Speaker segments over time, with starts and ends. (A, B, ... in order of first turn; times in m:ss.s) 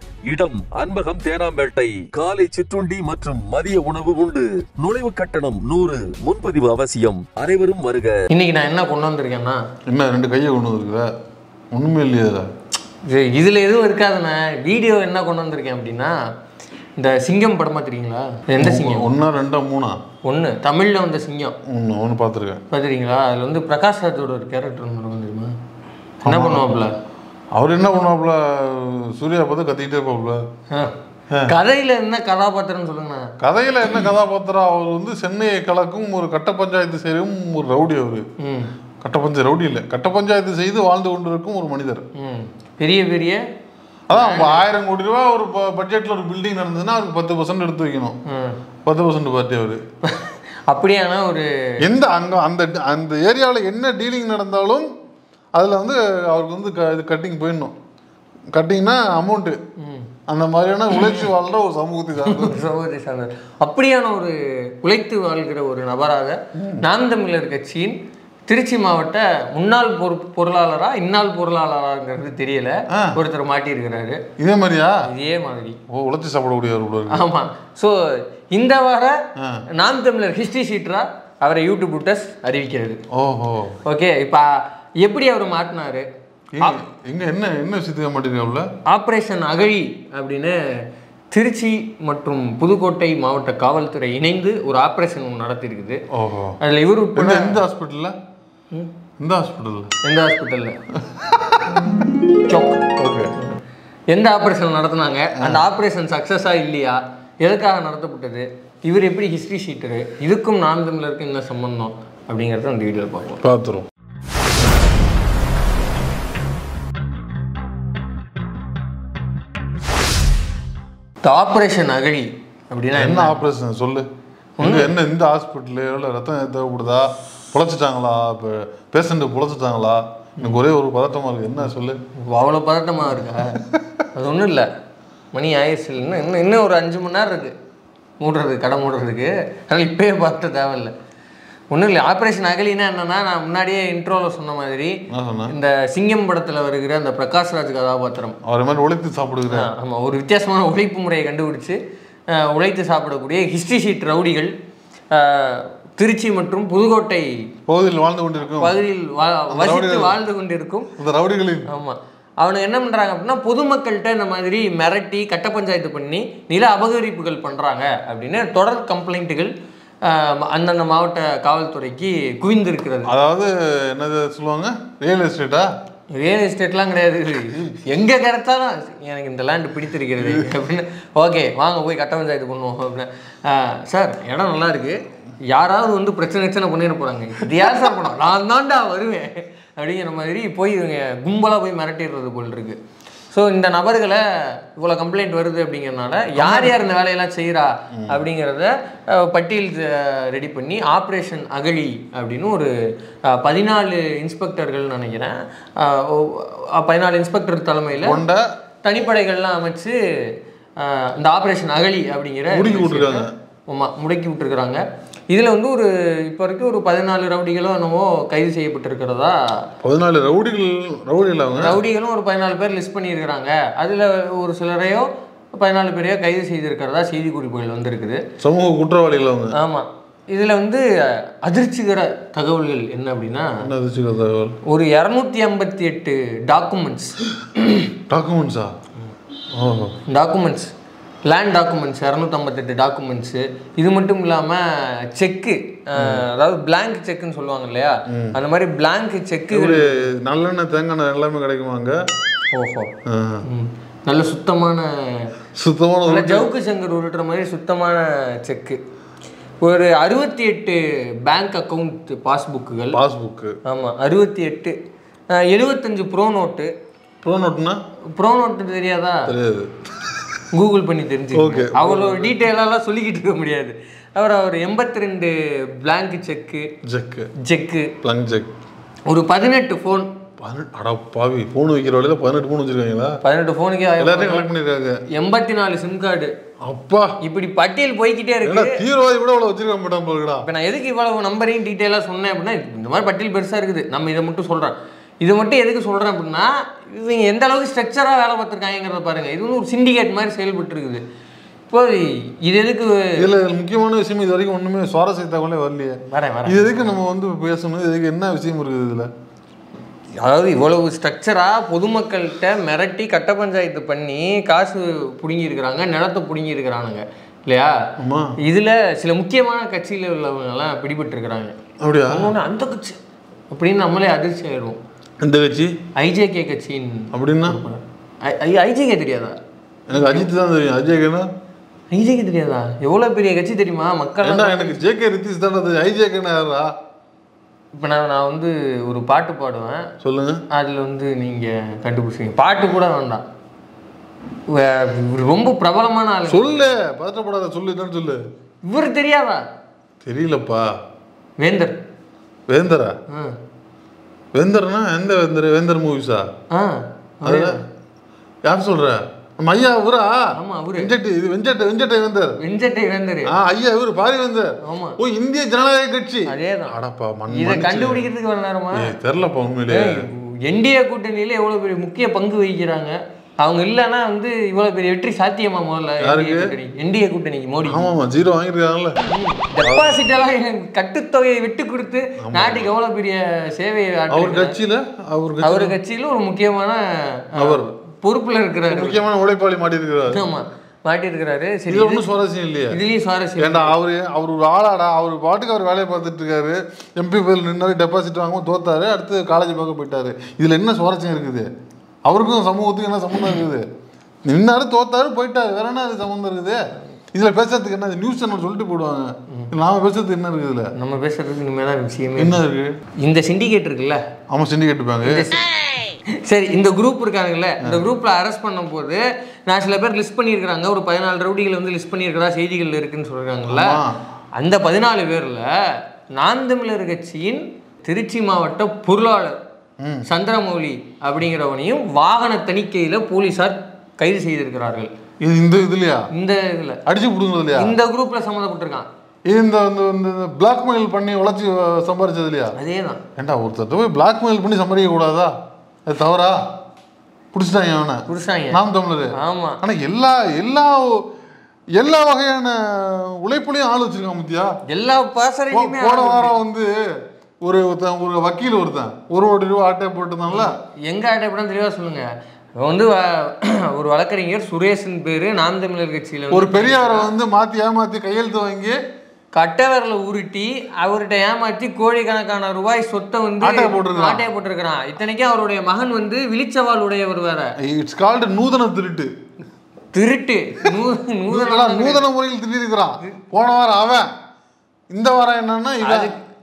0:00.2-0:08.2 A
0:08.3-0:09.6 B
0:09.9-0:11.1 C
0:11.7-0:12.5 C
0:13.0-0:16.2 B
0:17.0-0:19.1 B
0:18.6-0:20.0 C
0:20.2-0:21.6 B
0:21.7-0:22.6 C
0:22.7-0:25.5 B
0:26.2-0:26.6 C
0:26.2-0:26.9 B
0:27.5-0:30.4 C
0:31.4-0:33.3 B
0:33.4-0:38.2 C
0:38.4-0:38.7 B
0:39.0-0:42.0 C
0:42.2-0:43.4 B
0:44.1-0:48.2 C
0:44.1-0:44.6 B
0:48.3-0:48.6 B
0:48.8-0:49.8 C
0:50.0-0:51.5 B
0:51.8-0:54.9 C
0:55.6-0:57.7 C
0:58.5-0:59.6 C
0:59.8-1:00.1 B
1:00.3-1:02.6 C
1:00.9-1:01.2 B
1:02.2-1:08.0 B
1:06.5-1:06.8 C
1:08.5-1:14.2 B
1:12.9-1:13.2 C
1:14.4-1:15.0 C
1:15.0-1:15.8 B
1:15.9-1:17.2 C
1:17.1-1:19.2 B
1:19.4-1:19.6 C
1:19.7-1:23.0 B
1:23.1-1:23.8 C
1:23.8-1:26.1 B
1:26.6-1:28.7 C
1:28.9-1:30.8 B
1:31.3-1:36.0 B
1:36.1-1:36.6 C
1:36.6-1:37.6 B
1:37.1-1:38.2 C
1:39.2-1:39.9 C
1:40.0-1:40.8 B
1:41.0-1:42.1 C
1:42.4-1:43.6 B
1:43.0-1:43.3 C
1:44.1-1:53.4 B
1:45.4-1:45.6 C
1:53.4-1:53.9 C
2:01.2-2:03.4 B
2:03.0-2:04.1 C
2:04.6-2:04.9 B
2:04.6-2:12.0 C
2:12.2-2:13.6 B
2:13.6-2:13.8 C
2:14.1-2:14.7 B
2:15.3-2:17.5 B
2:18.2-2:20.9 B
2:21.7-2:28.4 B
2:25.1-2:25.5 C
2:28.4-2:29.7 C
2:29.5-2:31.8 B
2:32.3-2:34.5 B
2:35.1-2:37.3 B
2:37.7-2:38.7 C
2:38.5-2:40.9 B
2:39.5-2:40.2 C
2:41.0-2:41.7 C
2:41.7-2:49.5 B
2:50.0-2:53.1 B
2:53.0-2:55.7 C
2:56.1-3:12.8 B
3:00.2-3:00.5 C
3:07.5-3:07.9 C
3:13.3-3:22.7 B
3:16.4-3:16.8 C
3:23.2-3:28.2 B
3:28.0-3:28.5 C
3:28.8-3:30.0 B
3:30.8-3:39.4 B
3:32.5-3:33.3 C
3:39.8-3:41.8 C
3:41.5-3:48.2 B
3:48.4-3:49.6 C
3:49.5-3:53.6 B
3:53.6-3:54.6 C
3:54.6-3:57.9 B
3:58.1-3:58.7 C
3:59.5-4:00.0 C
4:00.1-4:00.7 B
4:01.2-4:10.0 B
4:06.0-4:06.2 C
4:08.1-4:08.4 C
4:09.5-4:12.0 C
4:12.5-4:12.9 B
4:13.0-4:13.4 C
4:13.4-4:15.3 B
4:15.5-4:16.5 C
4:16.0-4:18.8 B
4:19.6-4:23.0 B
4:22.9-4:23.6 C
4:23.6-4:24.8 B
4:25.3-4:26.7 B
4:27.2-4:27.8 C
4:28.1-4:29.3 B
4:29.3-4:30.4 C
4:30.5-4:36.7 B
4:31.3-4:32.4 C
4:36.8-4:37.3 C
4:37.4-4:37.9 B
4:38.0-4:38.5 C
4:39.1-4:40.1 B
4:40.4-4:43.2 C
4:43.2-4:44.5 B
4:44.0-4:45.0 C
4:45.1-4:46.3 B
4:46.6-4:47.1 C
4:47.2-4:48.8 B
4:48.4-4:50.4 C
4:50.4-5:01.0 B
5:01.7-5:03.2 B
5:03.2-5:09.1 C
5:06.1-5:06.9 B
5:10.2-5:17.7 B
5:18.0-5:18.3 C
5:18.4-5:21.6 B
5:21.8-5:22.3 C
5:22.1-5:23.0 B
5:23.5-5:24.8 B
5:25.2-5:25.7 C
5:26.0-5:29.4 B
5:27.1-5:27.6 C
5:29.9-5:31.3 C
5:29.9-5:30.3 B
5:31.9-5:34.8 B
5:34.2-5:36.7 C
5:37.8-5:39.9 B
5:40.0-5:40.4 C
5:40.5-5:43.2 B
5:44.5-5:46.5 B
5:46.3-5:48.2 C
5:48.6-5:49.4 B
5:50.0-5:50.7 C
5:51.4-5:51.8 B
5:52.5-5:53.0 C
5:54.3-5:56.3 C
5:56.5-5:57.6 B
5:57.2-5:57.6 C
5:58.4-6:00.2 C
6:00.4-6:00.9 B
6:00.8-6:02.4 C
6:02.4-6:03.3 B
6:03.3-6:08.1 C
6:04.6-6:05.0 B
6:06.3-6:06.7 B
6:07.3-6:08.9 B
6:08.7-6:10.1 C
6:09.7-6:17.9 B
6:16.0-6:16.5 C
6:17.7-6:19.0 C
6:19.0-6:24.6 B
6:19.6-6:20.0 C
6:22.2-6:22.7 C
6:24.1-6:25.8 C
6:25.4-6:29.0 B
6:27.4-6:27.7 C
6:28.7-6:30.2 C
6:30.1-6:32.0 B
6:31.7-6:32.8 C
6:32.7-6:33.7 B
6:33.4-6:41.5 C
6:42.0-6:43.6 C
6:44.2-6:46.6 C
6:47.1-6:50.7 C
6:50.8-6:52.4 B
6:52.2-6:52.7 C
6:53.0-6:54.0 B
6:54.3-6:55.3 C
6:55.0-6:55.5 B
6:56.1-7:03.8 B
7:03.4-7:04.0 C
7:04.4-7:09.4 B
7:09.8-7:10.0 C
7:10.1-7:14.9 B
7:15.2-7:16.1 C
7:16.1-7:16.8 B
7:16.8-7:17.7 C
7:17.5-7:18.9 B
7:19.3-7:22.5 C
7:22.6-7:23.0 B
7:23.2-7:25.3 C
7:25.8-7:26.4 C
7:27.3-7:31.1 C
7:28.1-7:28.6 B
7:29.1-7:29.6 B
7:31.8-7:34.5 C
7:34.7-7:36.4 B
7:35.5-7:36.8 C
7:37.4-7:40.5 C
7:40.3-7:42.0 B
7:42.6-7:47.1 B
7:46.3-7:48.8 C
7:49.3-7:57.5 B
7:53.4-7:54.2 C
7:57.6-7:59.1 C
7:59.9-8:02.1 B
8:01.3-8:04.1 C
8:04.9-8:06.1 C
8:05.8-8:06.2 B